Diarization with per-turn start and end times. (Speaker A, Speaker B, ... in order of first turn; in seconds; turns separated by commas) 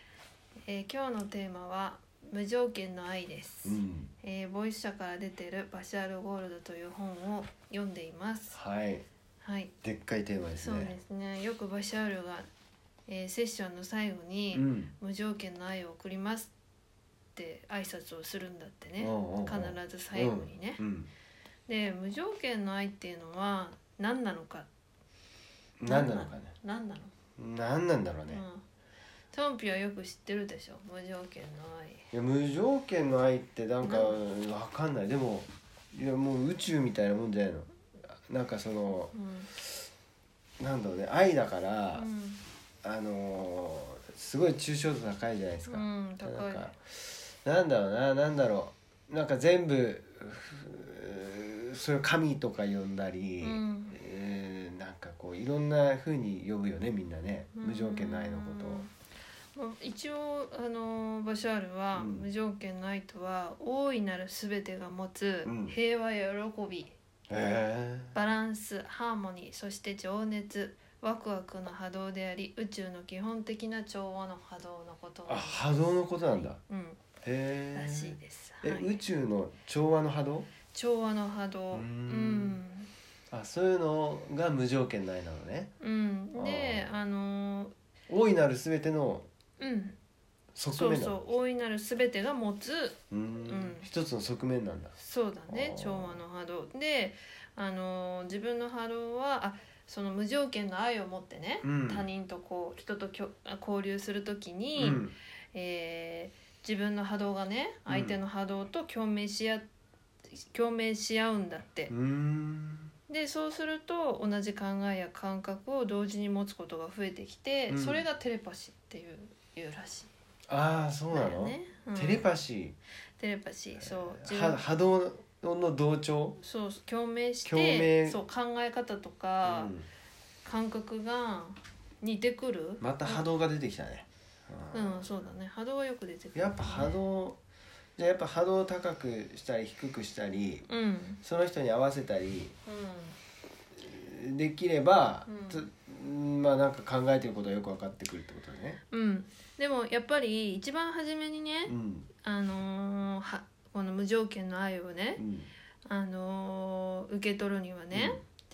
Speaker A: 0.7-8.6, Speaker B: 3.6-4.1, Speaker B: 8.5-9.0, Speaker A: 9.4-9.7, Speaker B: 9.8-10.9, Speaker A: 10.6-12.5, Speaker A: 13.1-16.5, Speaker B: 14.5-14.9, Speaker A: 17.3-20.8, Speaker B: 19.0-21.1, Speaker A: 21.7-24.7, Speaker B: 25.8-26.5, Speaker A: 25.9-27.1, Speaker B: 27.4-28.4, Speaker A: 28.3-28.6, Speaker A: 29.3-32.0, Speaker B: 32.1-39.1, Speaker A: 33.8-34.2, Speaker A: 39.1-39.5, Speaker B: 40.6-42.1, Speaker A: 41.9-42.4, Speaker B: 42.8-58.9, Speaker A: 45.7-46.7, Speaker A: 53.4-54.0, Speaker A: 57.5-58.9, Speaker A: 59.5-66.9, Speaker B: 61.9-62.3, Speaker B: 65.4-65.7, Speaker B: 67.3-68.2, Speaker A: 68.1-77.0, Speaker B: 75.3-76.6, Speaker B: 77.2-80.5, Speaker A: 77.7-79.0, Speaker A: 80.7-82.9, Speaker B: 81.7-82.6, Speaker B: 83.3-85.7, Speaker A: 85.8-87.7, Speaker B: 86.3-86.9, Speaker B: 88.1-89.3, Speaker A: 89.6-90.0, Speaker B: 90.5-91.2, Speaker A: 90.7-93.9, Speaker B: 93.1-95.0, Speaker A: 95.0-109.7, Speaker B: 95.5-96.2, Speaker B: 101.6-102.1, Speaker B: 104.8-105.1, Speaker B: 107.9-108.2, Speaker A: 110.4-111.9, Speaker B: 111.9-112.9, Speaker A: 113.1-120.1, Speaker B: 117.7-118.0, Speaker B: 120.5-122.8, Speaker A: 121.1-122.3, Speaker A: 123.2-124.6, Speaker B: 123.8-126.4, Speaker A: 126.4-129.7, Speaker B: 127.4-128.2, Speaker B: 129.4-129.9, Speaker A: 130.4-133.2, Speaker B: 132.8-135.2, Speaker A: 134.7-137.0, Speaker B: 136.3-137.4, Speaker B: 138.0-140.7, Speaker A: 140.7-141.2, Speaker B: 141.2-142.5, Speaker A: 142.7-143.2, Speaker B: 143.8-148.8, Speaker A: 145.3-145.7, Speaker A: 148.9-155.2, Speaker B: 151.7-152.1, Speaker B: 155.2-155.5, Speaker A: 155.8-158.2, Speaker B: 157.9-158.2